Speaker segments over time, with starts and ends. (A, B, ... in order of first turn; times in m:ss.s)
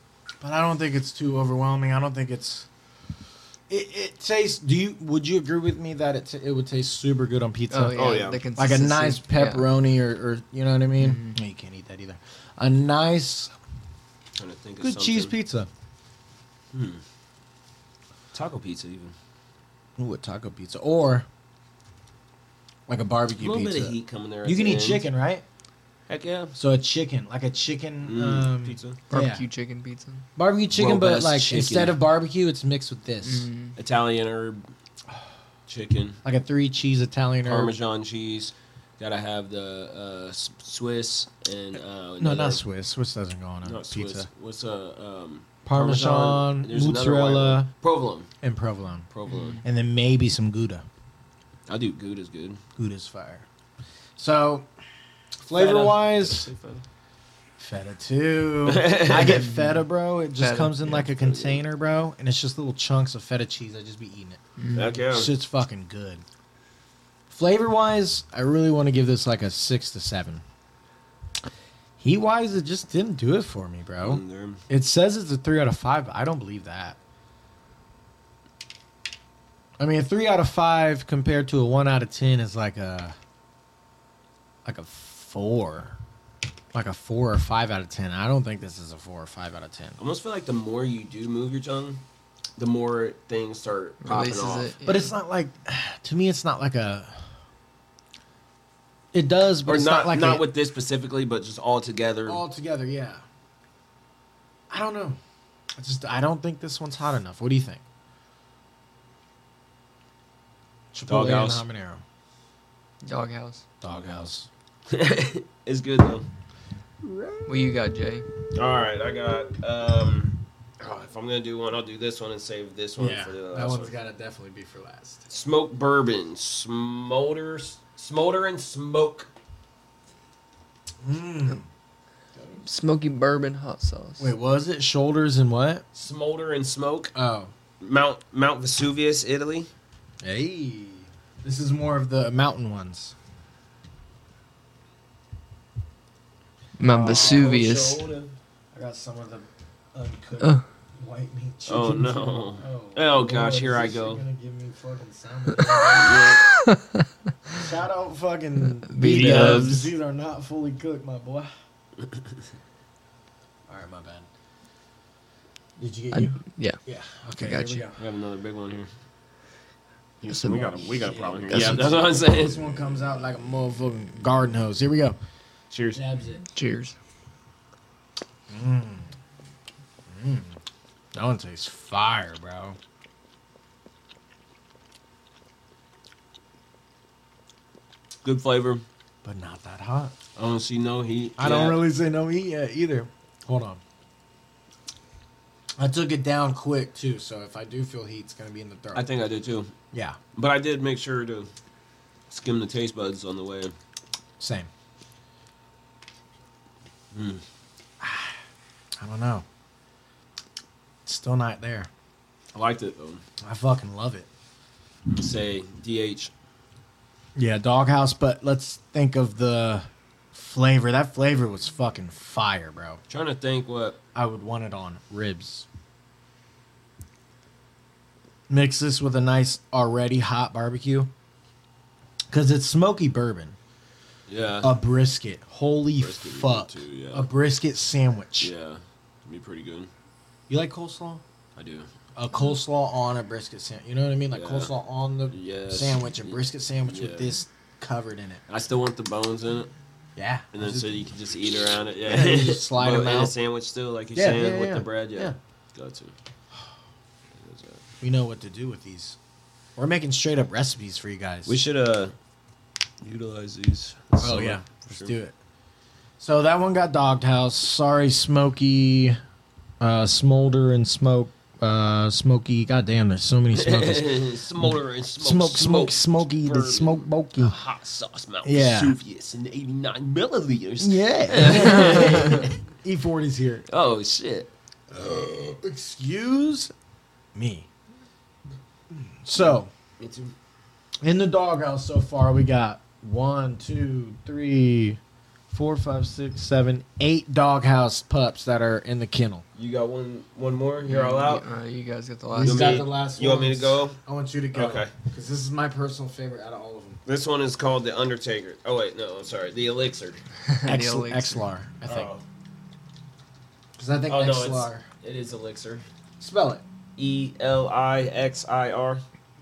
0:00.4-0:02.7 A
0:03.7-0:13.5 A
0:07.7-0:09.7 B
0:07.9-0:08.4 C
0:11.0-0:11.4 B
0:14.4-0:15.4 C
0:14.8-0:15.7 A
0:16.7-0:17.0 C
0:18.3-0:19.2 C
0:20.0-0:21.3 A
0:22.9-0:25.4 A
0:23.4-0:25.1 C
0:26.1-0:26.6 C
0:26.6-0:29.4 A
0:28.0-0:29.0 C
0:29.1-0:30.2 B
0:30.4-0:33.5 A
0:30.7-0:32.0 C
0:33.2-0:33.7 B
0:33.8-0:34.7 C
0:35.7-0:36.2 C
0:36.2-0:37.7 A
0:37.4-0:42.6 C
0:42.2-0:44.3 A
0:43.6-0:48.3 C
0:45.6-0:47.7 A
0:48.4-0:49.1 A
0:49.1-0:49.6 C
0:49.3-0:49.6 B
0:49.6-0:50.9 A
0:51.7-0:52.6 C
0:52.8-0:53.5 A
0:54.2-0:54.7 A
0:55.4-0:56.5 A
0:55.6-0:56.8 C
0:57.6-1:04.4 A
0:58.7-0:59.5 C
0:59.3-0:59.8 B
1:00.4-1:01.1 B
1:01.2-1:01.6 C
1:04.6-1:04.9 B
1:04.7-1:05.3 C
1:05.1-1:06.2 A
1:07.3-1:10.4 A
1:12.0-1:17.0 A
1:14.0-1:14.6 C
1:19.8-1:23.2 A
1:24.6-1:26.0 A
1:26.7-1:30.0 A
1:30.0-1:32.0 C
1:32.6-1:34.7 C
1:34.0-1:35.2 B
1:34.8-1:37.3 A
1:39.1-1:40.4 A
1:39.6-1:42.4 C
1:42.3-1:43.2 A
1:44.7-1:45.2 A
1:45.8-1:47.8 A
1:50.9-1:52.0 A
1:51.1-1:51.6 C
1:53.0-1:53.6 B
1:53.8-1:54.5 A
1:54.9-1:56.3 C
1:57.0-1:57.6 C
1:57.5-1:58.3 B
1:58.5-2:03.9 C
2:03.0-2:05.2 A
2:05.3-2:09.3 C
2:11.0-2:11.7 A
2:12.6-2:14.3 B
2:14.2-2:15.8 A
2:15.9-2:17.1 C
2:17.2-2:17.5 A
2:17.8-2:19.7 C
2:20.2-2:23.2 A
2:26.8-2:28.1 B
2:26.9-2:27.6 A
2:26.9-2:28.4 C
2:28.7-2:36.4 A
2:31.7-2:34.2 C
2:35.9-2:36.4 C
2:36.5-2:37.1 B
2:37.5-2:41.5 A
2:38.8-2:39.9 B
2:39.0-2:39.9 C
2:43.7-2:44.3 A
2:45.8-2:48.0 A
2:46.1-2:46.8 B
2:47.4-2:47.8 B
2:48.0-2:48.9 C
2:50.2-2:52.6 C
2:50.3-2:50.8 B
2:51.0-2:55.2 A
2:51.5-2:51.8 B
2:55.7-2:56.0 C
2:55.9-2:56.4 A
2:56.6-2:57.0 B
2:58.5-2:59.2 A
3:00.1-3:00.6 A
3:01.1-3:02.8 A
3:08.2-3:08.8 C
3:09.2-3:10.2 A
3:10.4-3:11.8 C
3:11.4-3:13.8 A
3:15.8-3:19.1 A
3:18.9-3:19.7 C
3:19.9-3:20.2 A
3:20.4-3:21.5 C
3:22.3-3:23.8 C
3:24.4-3:24.7 A
3:27.1-3:27.4 C
3:28.0-3:28.4 A
3:29.0-3:29.5 A
3:31.0-3:31.9 A
3:32.5-3:33.2 C
3:33.4-3:34.3 A
3:35.1-3:36.3 C
3:37.4-3:43.0 A
3:43.1-3:44.0 C
3:44.2-3:45.7 A
3:48.5-3:51.1 A
3:52.3-3:53.6 A
3:54.3-3:54.7 C
3:54.6-3:58.5 A
3:56.0-3:57.3 C
3:58.4-3:59.9 C
4:00.5-4:01.2 A
4:01.6-4:01.9 C
4:02.2-4:08.4 A
4:04.3-4:04.7 C
4:05.3-4:06.4 C
4:06.9-4:07.3 C
4:08.5-4:09.7 C
4:10.2-4:11.0 A
4:10.5-4:16.1 C
4:12.1-4:13.3 A
4:14.2-4:15.4 A
4:17.4-4:17.8 C
4:18.0-4:19.2 A
4:19.8-4:21.6 A
4:21.5-4:22.2 C
4:23.0-4:25.1 C
4:24.2-4:25.4 A
4:26.2-4:29.2 A
4:29.8-4:37.6 A
4:33.5-4:42.6 C
4:38.4-4:39.0 A
4:40.8-4:43.7 A
4:43.7-4:45.6 C
4:45.6-4:46.7 A
4:47.4-4:47.7 A
4:48.9-4:49.7 A
4:50.0-4:50.4 C
4:51.0-4:59.4 A
4:59.6-5:01.4 C
5:00.8-5:02.9 B
5:02.3-5:07.0 A
5:02.4-5:04.0 C
5:04.5-5:04.9 C
5:07.1-5:10.2 C
5:10.5-5:11.4 B
5:10.6-5:12.1 A
5:11.9-5:12.2 C
5:13.8-5:14.8 A
5:14.1-5:15.8 C
5:16.2-5:16.6 A
5:17.0-5:19.0 C